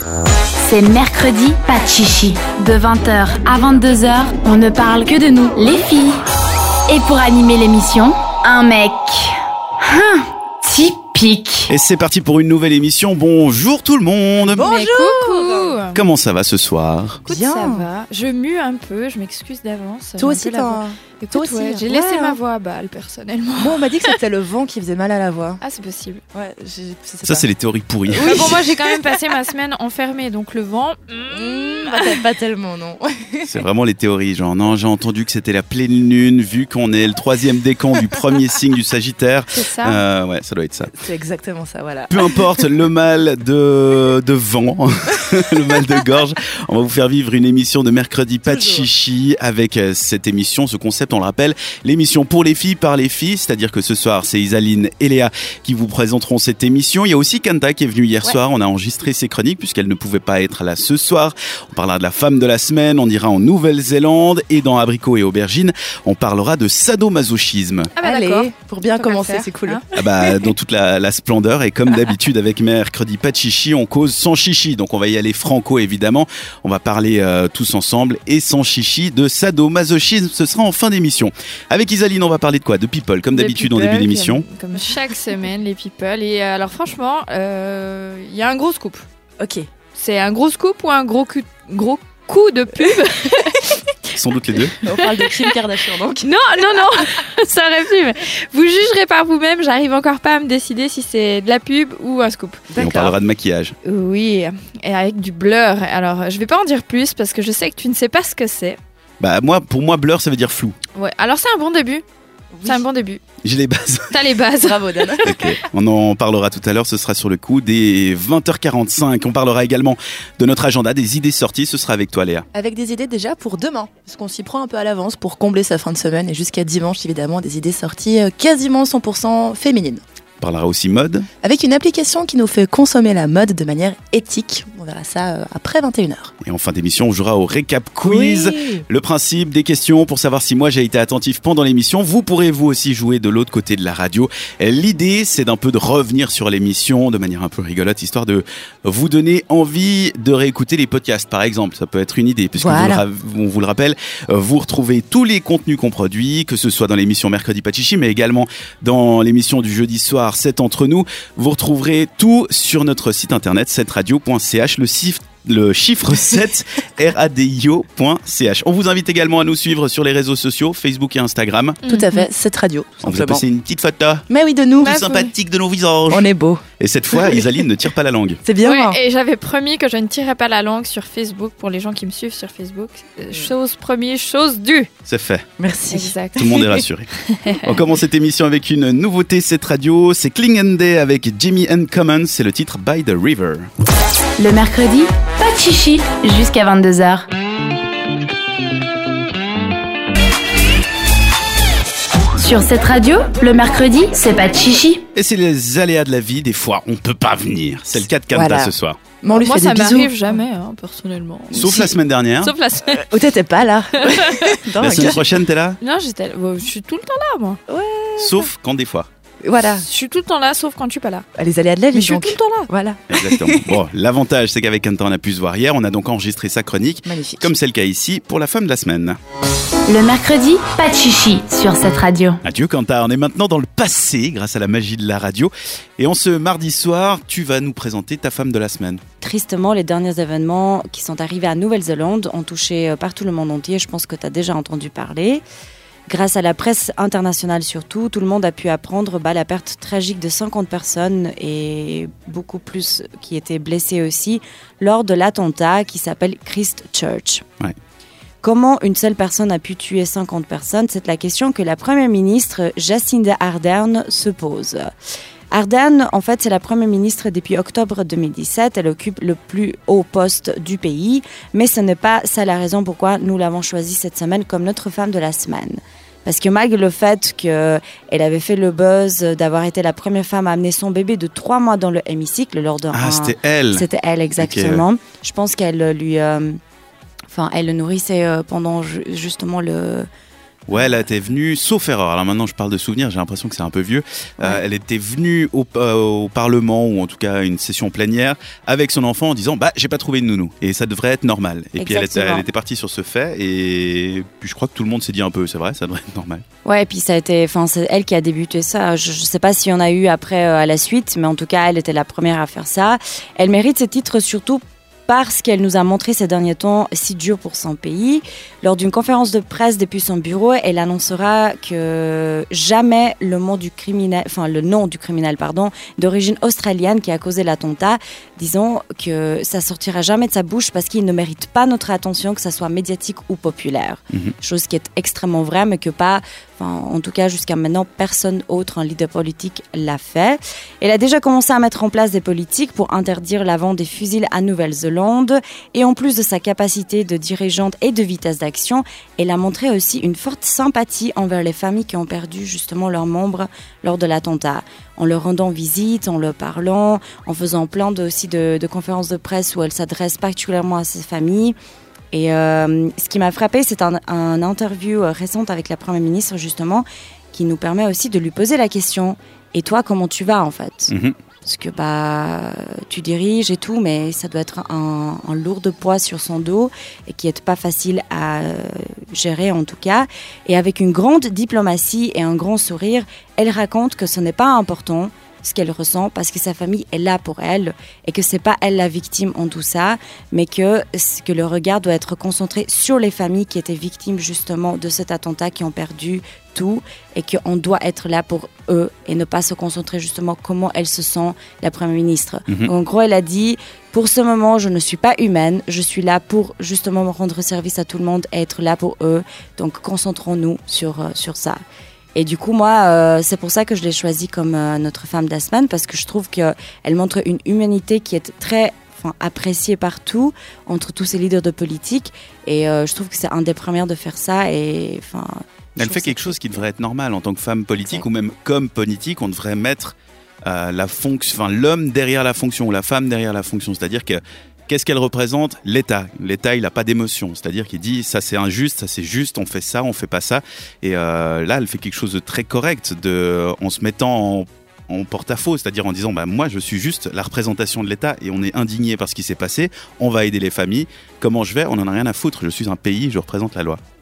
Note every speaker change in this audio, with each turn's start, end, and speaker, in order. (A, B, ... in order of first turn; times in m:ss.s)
0:00.6-0:06.2 A
0:06.9-0:11.7 A
0:11.7-0:14.7 B
0:14.4-0:15.8 C
0:14.6-0:16.0 D
0:15.9-0:17.2 B
0:17.2-0:17.9 C
0:17.2-0:24.1 D
0:20.2-0:22.4 C
0:23.6-0:25.6 C
0:25.6-0:26.2 D
0:26.3-0:27.5 C
0:27.2-0:28.6 B
0:28.0-0:29.2 C
0:28.2-0:32.2 D
0:31.3-0:33.6 C
0:33.5-0:40.9 B
0:39.5-0:40.0 D
0:40.9-0:42.6 C
0:42.1-1:07.9 B
0:48.4-0:48.9 C
1:08.0-1:09.8 D
1:08.0-1:10.5 C
1:09.9-1:24.4 B
1:23.3-1:29.0 D
1:29.4-1:29.7 C
1:30.0-1:33.7 D
1:34.1-1:34.8 B
1:34.8-1:36.3 C
1:34.9-1:35.5 D
1:36.2-1:42.8 D
1:42.7-1:43.1 C
1:42.8-1:43.7 B
1:43.8-1:48.8 D
1:49.2-1:50.8 B
1:50.9-1:52.0 D
1:52.5-1:52.8 C
1:52.6-1:53.2 D
1:53.4-1:54.2 B
1:54.1-1:55.3 D
1:54.6-1:55.4 C
1:55.2-2:02.4 B
2:02.5-2:10.0 C
2:10.4-2:11.3 B
2:11.4-2:16.3 C
2:16.4-2:51.8 B
2:18.0-2:18.8 C
2:32.6-2:33.0 C
2:51.8-2:52.2 D
2:51.8-2:53.4 C
2:53.0-2:54.2 B
2:54.3-2:55.1 C
2:54.8-2:55.3 D
2:54.8-2:56.3 B
2:56.1-2:57.4 C
2:56.8-2:58.4 B
2:58.4-2:59.0 C
2:58.6-3:04.9 D
3:05.1-3:05.4 B
3:05.6-3:06.8 C
3:05.9-3:07.6 D
3:06.4-3:07.1 B
3:07.6-3:13.7 B
3:14.4-3:17.2 A
3:22.4-3:25.0 A
3:25.1-3:29.0 B
3:28.3-3:30.4 C
3:29.3-3:33.1 D
3:31.5-3:32.5 B
3:31.6-3:31.9 C
3:33.0-3:35.4 C
3:34.0-3:35.1 D
3:34.8-3:35.8 B
3:35.8-3:37.6 D
3:37.7-3:38.5 C
3:38.2-3:39.1 B
3:39.4-3:39.8 C
3:39.9-3:41.2 D
3:41.4-3:43.8 C
3:41.9-3:42.7 D
3:43.1-3:49.2 B
3:47.0-3:47.5 C
3:49.9-3:52.4 A
3:52.4-3:59.0 B
3:59.2-4:05.4 E
4:06.1-4:17.4 E
4:18.4-4:24.9 E
4:25.5-4:46.6 E
4:42.9-4:43.8 B
4:44.4-4:44.8 B
4:47.3-4:50.1 E
4:50.7-5:06.4 B
5:01.8-5:02.4 E
5:06.6-6:01.6 E
6:02.1-6:51.6 E
6:10.9-6:11.1 B
6:52.1-7:06.6 E
7:05.8-7:33.8 B